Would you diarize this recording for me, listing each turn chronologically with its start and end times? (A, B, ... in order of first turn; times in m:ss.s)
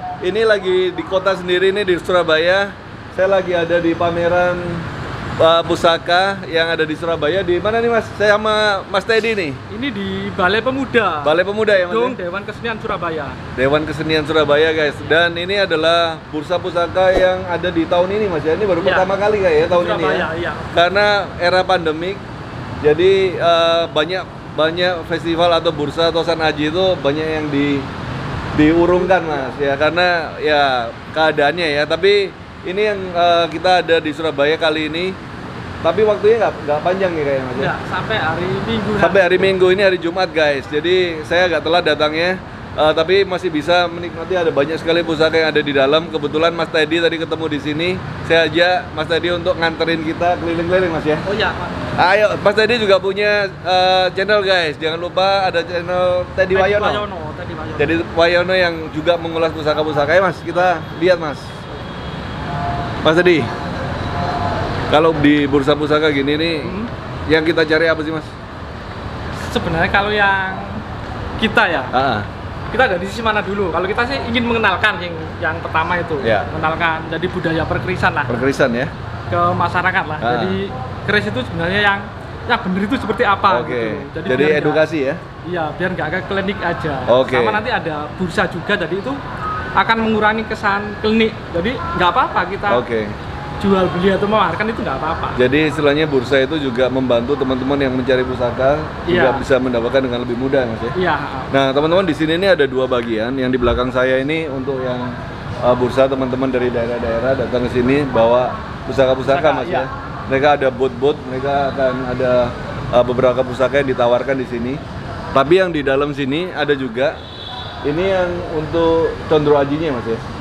0:00.2-0:04.8 A
0:05.4-0:09.6 A
0:09.7-0:13.4 B
0:11.2-0:12.2 A
0:13.5-0:22.2 A
0:18.8-0:19.1 B
0:19.6-0:20.7 B
0:22.8-0:27.9 A
0:28.5-0:35.2 A
0:35.8-0:37.7 A
0:37.6-0:39.5 B
0:39.0-0:51.2 A
0:51.2-0:51.9 B
0:52.0-0:57.0 A
0:56.5-0:58.0 B
0:57.8-1:01.5 A
1:03.0-1:03.5 A
1:04.9-1:08.3 A
1:06.6-1:06.9 B
1:09.5-1:10.8 B
1:11.4-1:11.9 B
1:11.9-1:12.3 A
1:12.7-1:18.3 B
1:16.2-1:16.5 A
1:18.3-1:18.9 A
1:19.3-1:24.8 B
1:20.2-1:20.6 A
1:23.5-1:25.2 A
1:25.4-1:29.2 B
1:27.0-1:27.6 A
1:29.7-1:32.8 B
1:32.7-1:33.2 A
1:33.6-1:35.4 B
1:35.4-1:41.0 A
1:39.0-1:39.4 B
1:40.9-1:41.5 B
1:41.5-1:54.8 A
1:49.3-1:49.9 B
1:55.3-1:57.2 A
1:57.8-2:00.2 A